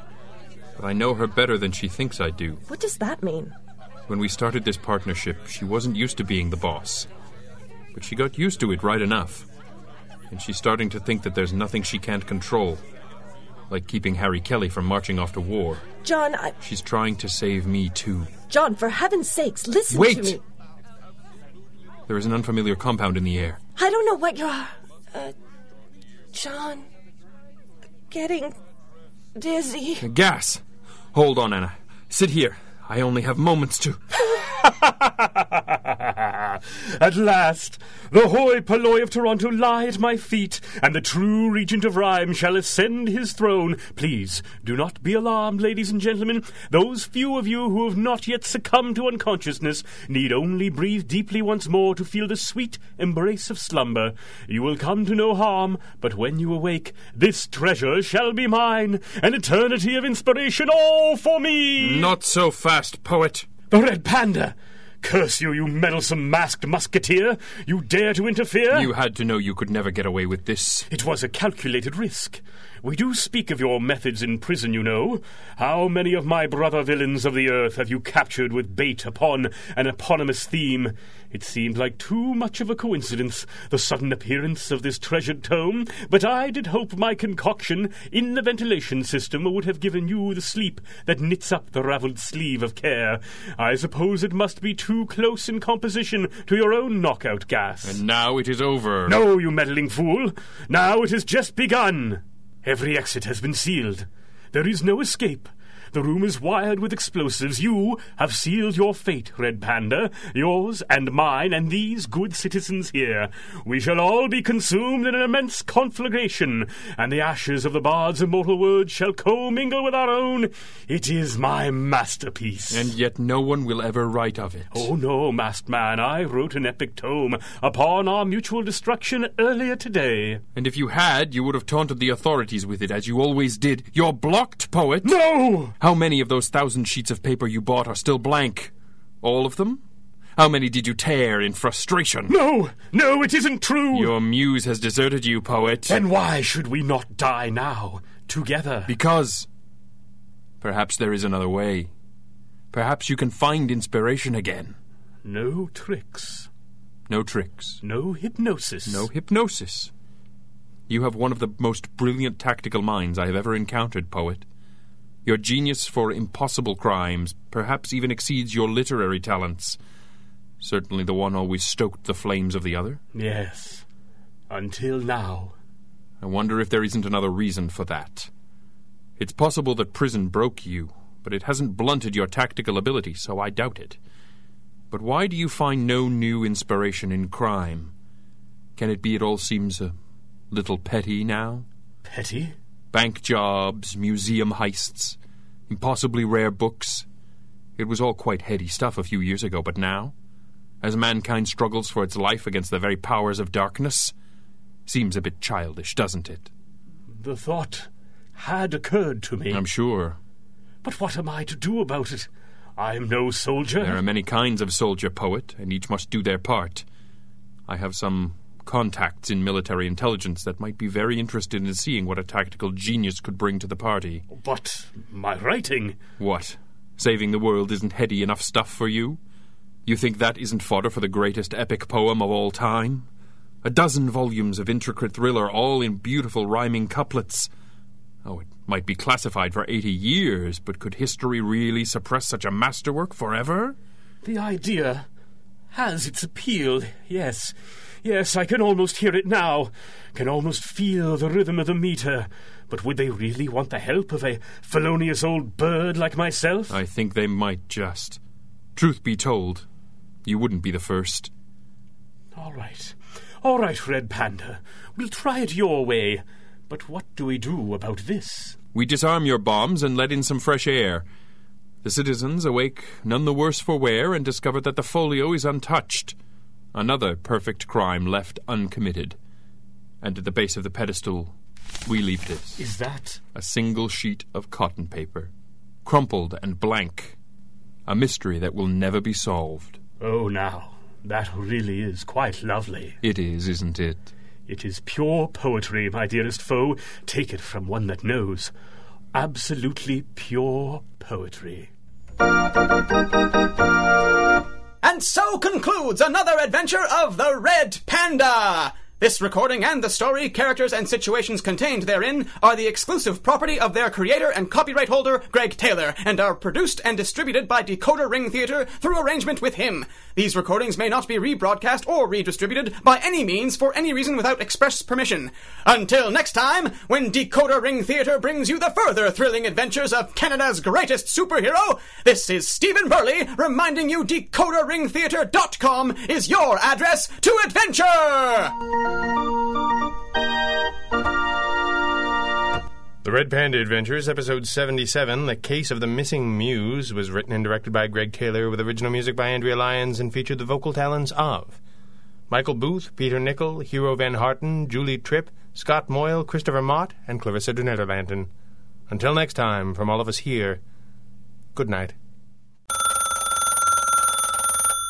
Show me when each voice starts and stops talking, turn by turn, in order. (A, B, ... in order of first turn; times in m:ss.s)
0:00.8-0:02.6 A
0:02.7-0:03.5 B
0:04.1-0:07.1 A
0:07.9-0:09.5 A
0:10.3-0:12.8 A
0:13.7-0:15.9 A
0:16.0-0:16.6 B
0:16.6-0:18.3 A
0:18.5-0:20.4 B
0:19.9-0:20.4 A
0:22.1-0:23.6 A
0:23.8-0:25.3 B
0:26.3-0:26.9 B
0:28.1-0:28.6 B
0:29.4-0:30.1 B
0:30.0-0:30.6 A
0:31.1-0:34.0 A
0:34.6-1:02.1 C
1:01.8-1:03.5 A
1:03.7-1:08.9 C
1:08.7-1:10.9 A
1:10.9-1:38.0 C
1:37.8-1:39.2 A
1:39.1-2:02.9 C
2:02.7-2:04.9 A
2:04.7-2:10.4 C
2:10.6-2:15.2 A
2:15.0-2:15.8 C
2:15.8-2:19.8 A
2:20.4-2:22.4 A
2:22.3-2:24.1 C
2:23.9-2:26.0 A
2:25.9-2:28.9 C
2:28.9-2:29.5 A
2:30.6-2:31.9 A
2:32.7-2:34.8 A
2:35.2-2:36.5 C
2:37.1-2:37.8 A
2:37.8-2:39.1 C
2:38.9-2:39.9 A
2:40.9-2:44.4 A
2:45.2-2:49.8 A
2:50.6-2:53.0 A
2:53.1-2:53.8 C
2:54.5-2:55.5 C
2:56.2-2:58.3 A
2:59.2-3:04.0 A
3:04.9-3:07.9 A
3:08.8-3:09.9 A
3:10.5-3:11.6 A
3:12.1-3:12.5 C
3:12.9-3:15.2 A
3:15.7-3:17.1 A
3:17.8-3:20.1 A
3:20.8-3:24.1 A
3:24.9-3:26.5 A
3:27.1-3:29.6 C
3:29.5-3:30.2 A
3:30.8-3:34.0 C
3:33.8-3:36.8 A
3:37.7-3:44.2 A
3:44.3-3:46.0 C
3:46.2-3:49.2 A
3:49.9-3:53.1 A
3:53.6-3:57.5 A
3:58.2-4:03.8 A
4:04.2-4:05.1 C
4:05.7-4:16.8 C
4:16.7-4:18.2 A
4:18.8-4:19.6 A
4:20.2-4:21.3 A
4:22.4-4:28.6 C
4:28.7-4:31.1 A
4:31.8-4:36.1 A
4:36.7-4:39.2 A
4:40.0-4:42.6 A
4:42.6-4:43.2 C
4:43.4-4:45.3 A
4:45.8-4:47.2 A
4:47.9-4:49.8 A
4:50.0-4:53.0 C
4:53.0-4:54.1 A
4:54.5-4:58.5 C
4:59.1-5:01.7 C
5:04.8-5:38.6 D
5:43.0-5:51.6 E
5:52.3-5:58.3 E
5:58.9-6:00.6 E
6:01.5-6:01.9 E